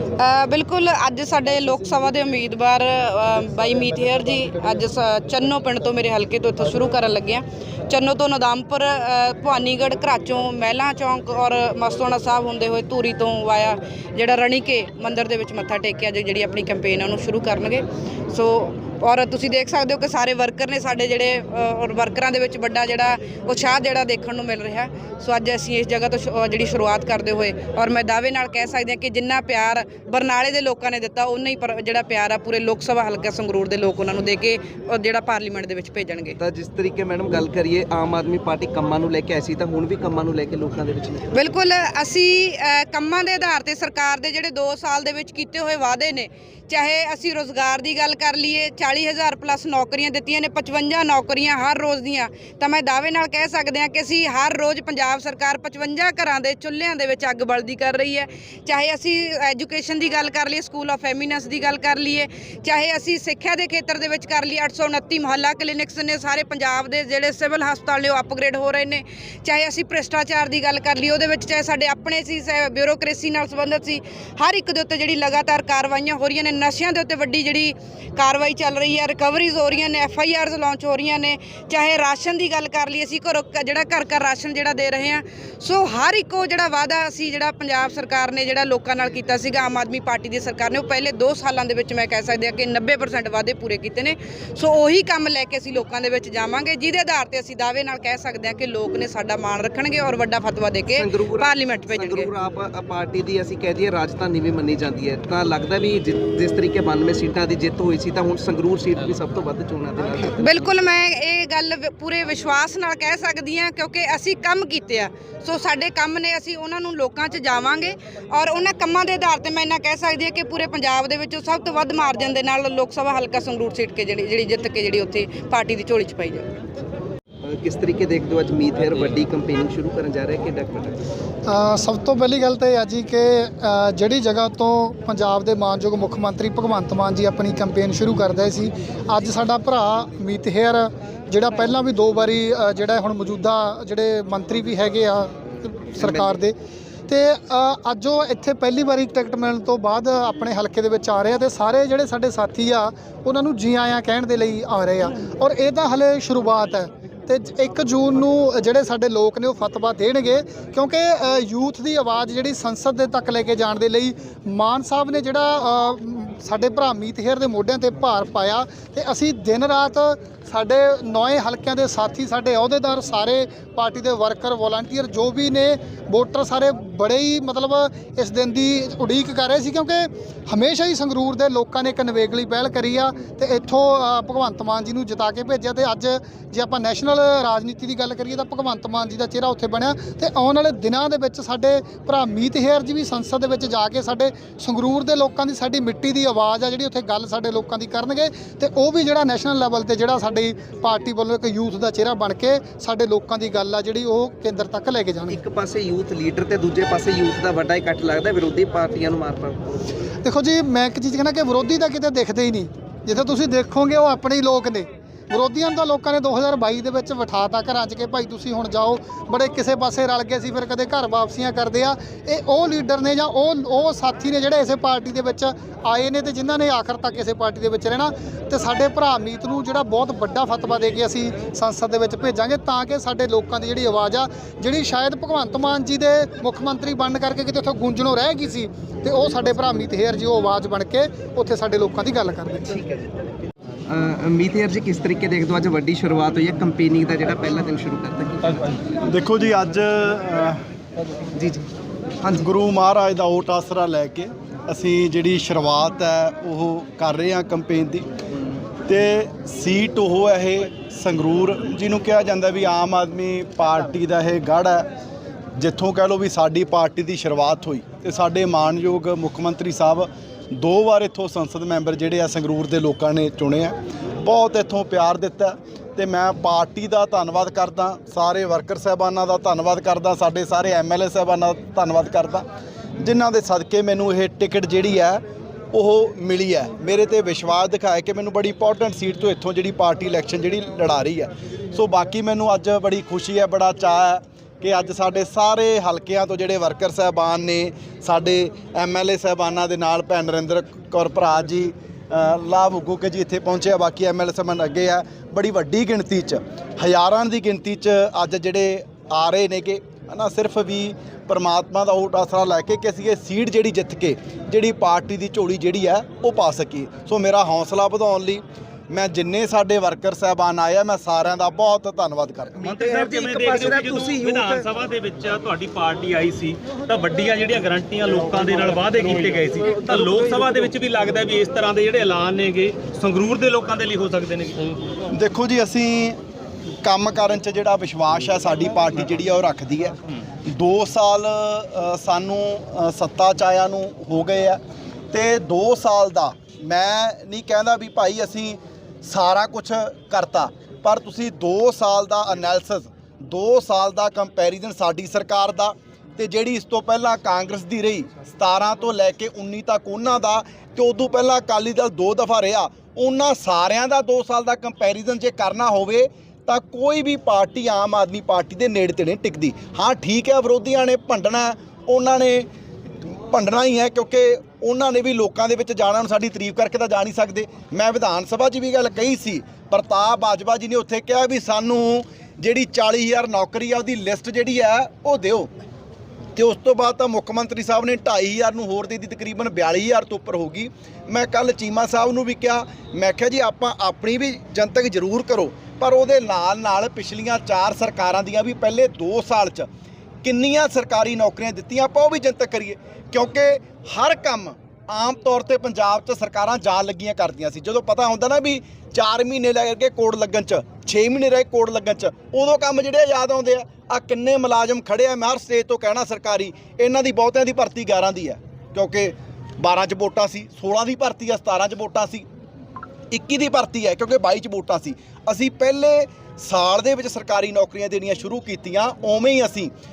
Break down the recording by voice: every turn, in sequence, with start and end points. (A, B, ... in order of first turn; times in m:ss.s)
0:00.2-0:36.4 A
0:36.4-0:41.4 B
0:41.3-1:42.3 A
1:40.9-1:50.8 B
1:50.4-2:06.5 A
2:07.4-2:11.0 B
2:11.5-2:26.5 C
2:26.0-2:26.4 B
2:27.1-3:25.3 C
3:25.3-3:29.9 B
3:30.2-4:02.7 C
4:02.7-4:03.1 B
4:03.9-4:08.8 B
4:09.1-4:10.4 D
4:09.8-4:10.6 C
4:11.4-4:11.6 B
4:12.2-4:12.5 B
4:12.8-4:18.0 D
4:13.1-4:13.6 C
4:15.0-4:15.4 C
4:16.3-4:17.2 C
4:18.9-4:24.8 D
4:19.9-4:20.9 C
4:25.6-4:30.1 D
4:27.9-4:28.4 C
4:30.6-4:33.6 D
4:34.3-4:35.5 D
4:34.8-4:35.2 C
4:36.0-4:42.4 D
4:43.0-4:45.0 D
4:45.7-5:18.4 D
5:18.9-5:22.4 D
5:22.6-5:34.6 E
5:22.6-5:24.7 B
5:35.3-5:36.0 D
5:36.8-5:38.5 D
5:38.5-5:39.5 C
5:39.2-5:39.9 D
5:40.6-5:44.6 D
5:45.1-6:12.4 D
6:13.3-6:25.5 D
6:26.4-6:39.6 D
6:40.3-7:02.2 D
7:03.2-7:09.7 D